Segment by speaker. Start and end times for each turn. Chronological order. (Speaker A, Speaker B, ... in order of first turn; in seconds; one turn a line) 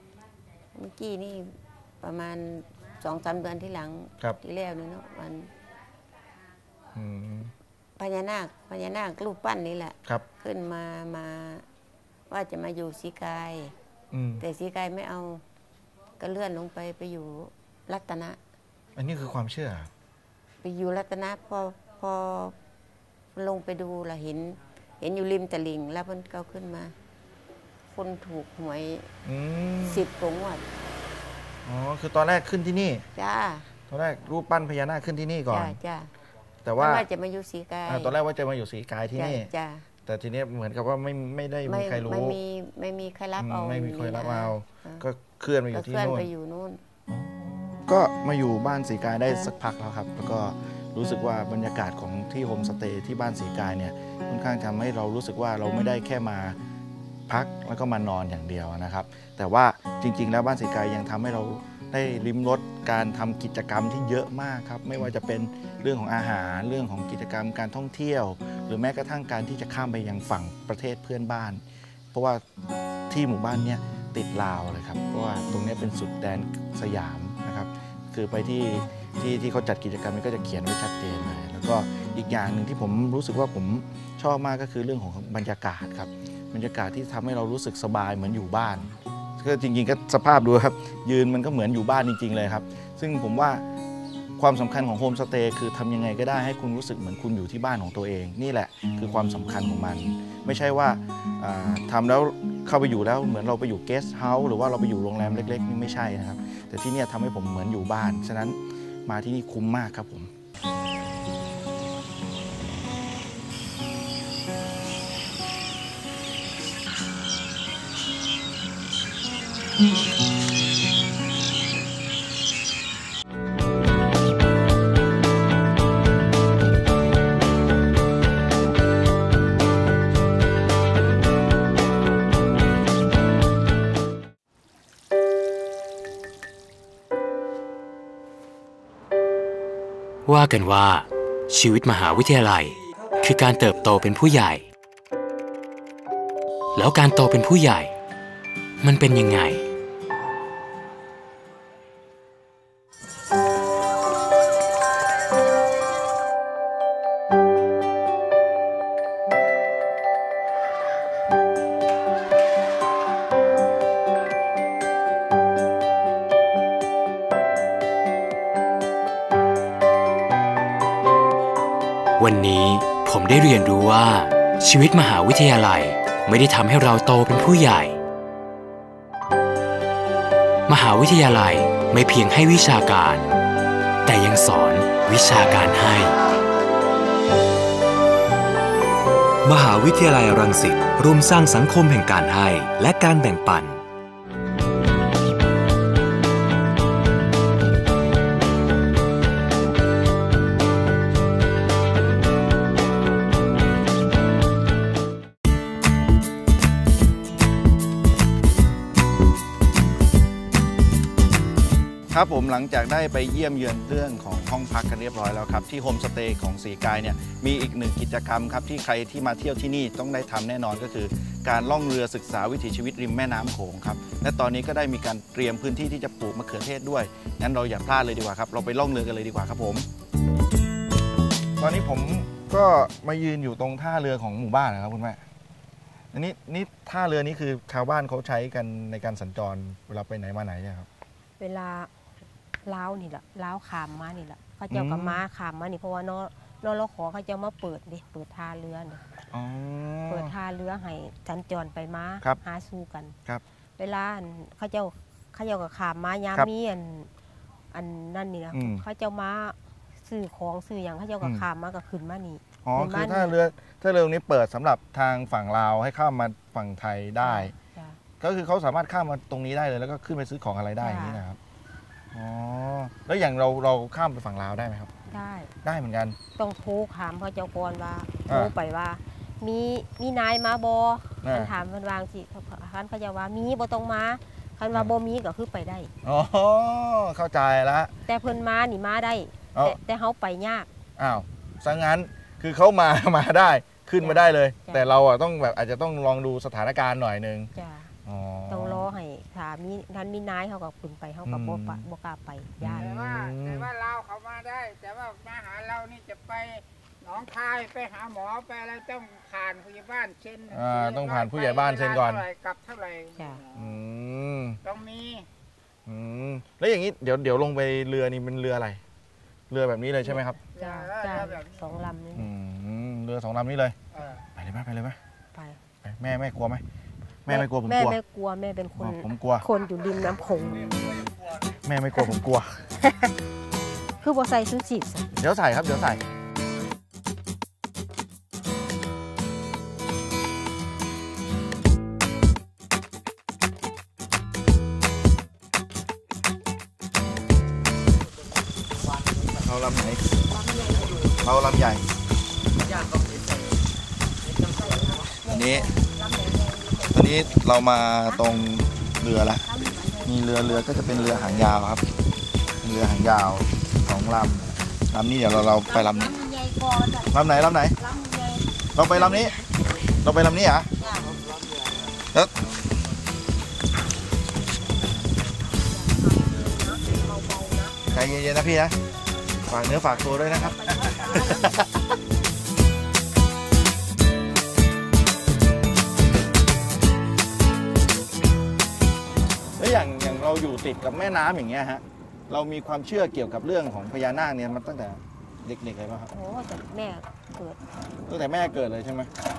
Speaker A: 0.7-5.5
Speaker B: 6.9-7.5
Speaker A: 8.0-11.7
Speaker A: 12.3-13.7
Speaker B: 14.1-14.4
Speaker A: 14.4-15.4
Speaker A: 16.2-18.4
Speaker B: 18.9-19.9
Speaker A: 20.6-22.6
Speaker A: 23.3-26.9
Speaker A: 27.9-29.1
Speaker B: 29.2-30.0
Speaker A: 29.8-30.6
Speaker B: 31.6-33.1
Speaker A: 33.1-33.7
Speaker B: 33.9-35.8
Speaker A: 35.5-36.1
Speaker B: 36.6-37.0
Speaker A: 36.8-38.1
Speaker B: 37.9-39.5
Speaker A: 39.1-39.9
Speaker B: 40.0-42.4
Speaker A: 41.7-45.0
Speaker B: 43.4-46.3
Speaker A: 45.7-46.8
Speaker B: 47.1-56.6
Speaker B: 57.3-71.6
Speaker B: 72.1-72.4
Speaker B: 73.1-93.6
Speaker B: 94.4-110.3
Speaker C: 140.2-144.7
Speaker C: 146.7-147.9
Speaker C: 148.8-149.6
Speaker C: 172.2-178.0
Speaker C: 180.7-183.4
Speaker C: 184.1-186.1
Speaker D: 189.4-193.8
Speaker B: 212.1-229.9
Speaker B: 231.6-235.2
Speaker B: 236.1-240.9
Speaker E: 241.4-241.9
Speaker E: 242.6-249.0
Speaker B: 244.7-245.2
Speaker B: 249.3-250.3
Speaker E: 250.1-253.1
Speaker E: 253.8-257.1
Speaker E: 257.7-263.3
Speaker B: 258.5-258.8
Speaker B: 261.2-261.4
Speaker B: 262.6-267.5
Speaker E: 267.2-268.0
Speaker B: 268.2-271.4
Speaker E: 270.8-271.2
Speaker B: 272.1-274.9
Speaker E: 275.1-275.5
Speaker B: 275.6-276.2
Speaker E: 276.4-285.9
Speaker B: 278.3-278.5
Speaker B: 281.2-281.5
Speaker B: 286.0-287.9
Speaker E: 288.1-290.7
Speaker B: 291.0-297.5
Speaker E: 294.0-294.9
Speaker E: 297.5-297.9
Speaker B: 298.0-298.9
Speaker E: 298.5-303.0
Speaker B: 301.2-301.9
Speaker B: 302.6-303.7
Speaker F: 302.7-313.8
Speaker B: 310.5-312.2
Speaker E: 313.1-313.4
Speaker B: 313.5-314.6
Speaker F: 314.6-315.3
Speaker B: 315.9-318.8
Speaker B: 319.5-320.4
Speaker E: 320.0-322.3
Speaker F: 320.5-321.6
Speaker B: 322.1-323.8
Speaker F: 323.9-324.2
Speaker B: 324.3-325.0
Speaker E: 325.3-325.6
Speaker B: 325.8-326.6
Speaker B: 327.2-328.0
Speaker E: 327.3-330.9
Speaker B: 328.8-329.4
Speaker B: 331.6-332.6
Speaker E: 332.8-333.1
Speaker E: 334.0-335.1
Speaker B: 335.2-336.0
Speaker B: 349.4-350.2
Speaker E: 350.3-351.0
Speaker B: 351.2-351.9
Speaker E: 352.6-353.0
Speaker E: 354.4-357.3
Speaker B: 355.2-355.7
Speaker B: 356.9-359.5
Speaker E: 359.4-360.9
Speaker B: 360.0-361.8
Speaker B: 362.6-366.1
Speaker E: 365.7-369.3
Speaker B: 367.1-367.8
Speaker B: 368.7-369.4
Speaker B: 370.0-370.7
Speaker B: 372.1-372.4
Speaker E: 375.5-377.8
Speaker B: 377.9-378.8
Speaker B: 379.4-381.8
Speaker E: 380.0-381.7
Speaker B: 389.6-396.1
Speaker E: 396.1-397.6
Speaker B: 398.0-399.1